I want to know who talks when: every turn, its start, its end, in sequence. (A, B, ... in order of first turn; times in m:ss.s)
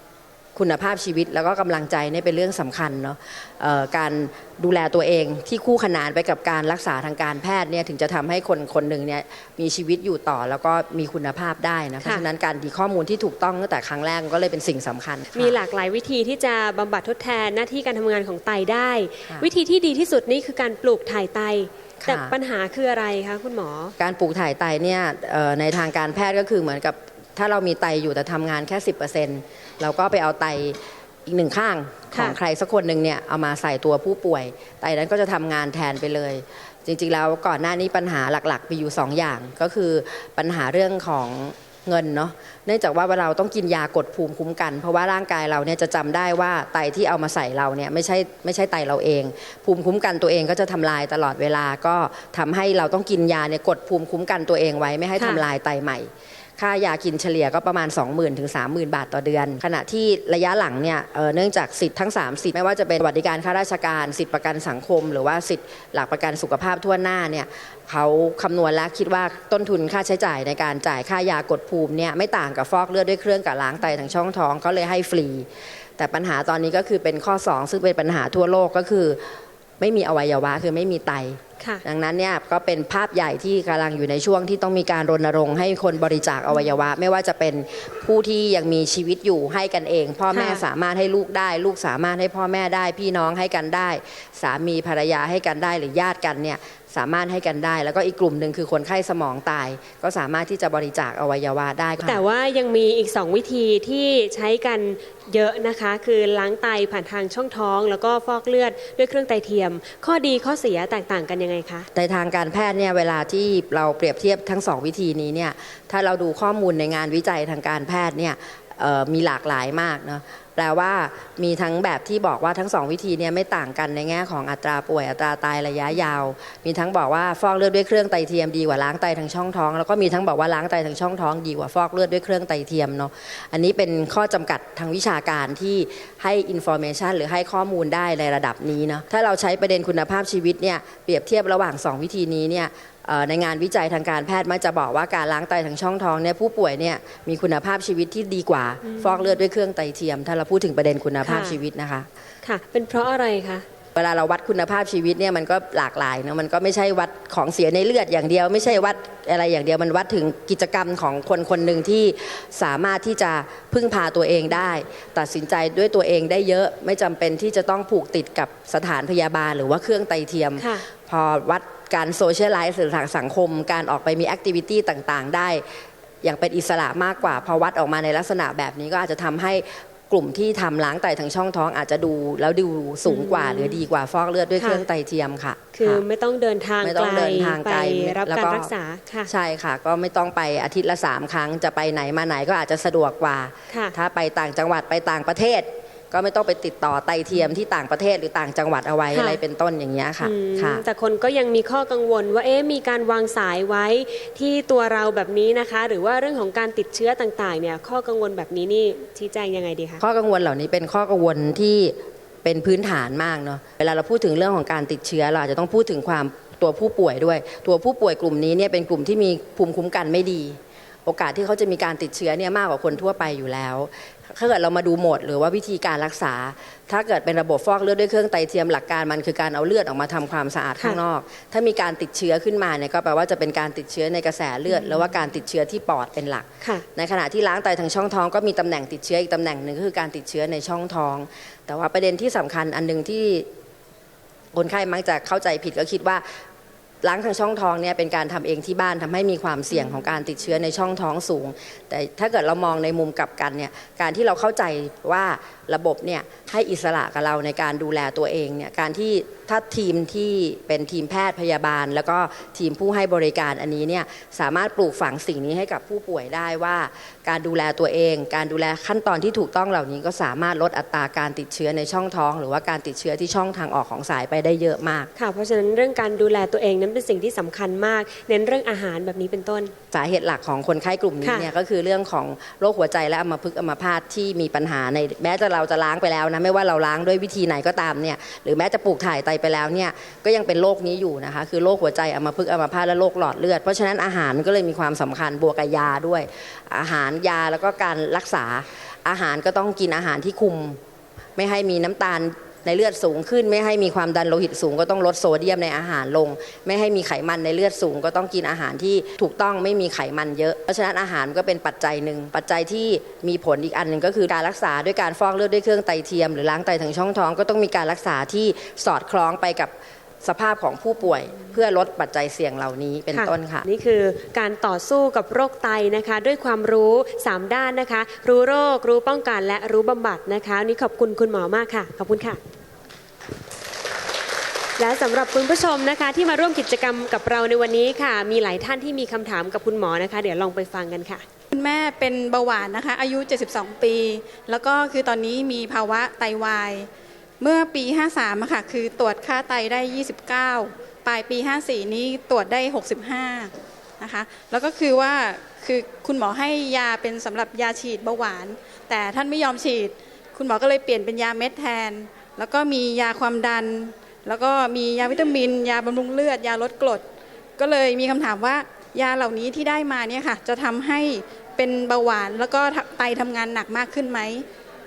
0:00.6-0:15.6 A
0:15.3-0:24.0 B
0:22.0-0:22.3 A
0:24.0-1:19.2 A
0:32.1-0:32.4 B
0:55.2-0:55.4 B
1:19.8-1:42.2 A
1:30.3-1:30.6 B
1:42.0-1:51.9 B
1:51.9-2:32.1 A
2:28.8-2:29.1 B
2:31.2-2:31.6 B
2:32.4-2:33.6 B
2:34.0-2:55.6 A
2:50.6-2:50.9 B
2:56.2-3:06.0 A
3:03.1-3:03.8 B
3:04.6-3:04.9 B
3:05.8-3:09.3 B
3:06.8-3:08.7 A
3:09.3-3:20.8 A
3:19.1-3:19.4 B
3:20.2-3:30.0 B
3:30.0-4:03.5 A
3:54.7-3:55.0 B
4:04.5-4:06.4 A
4:07.0-4:35.1 A
4:35.2-4:39.7 B
4:39.9-5:00.8 A
4:41.2-4:41.5 B
5:01.4-5:23.7 A
5:23.1-5:32.4 B
5:34.8-5:41.2 B
5:41.5-5:46.9 C
5:47.4-6:07.0 C
6:07.6-6:14.5 C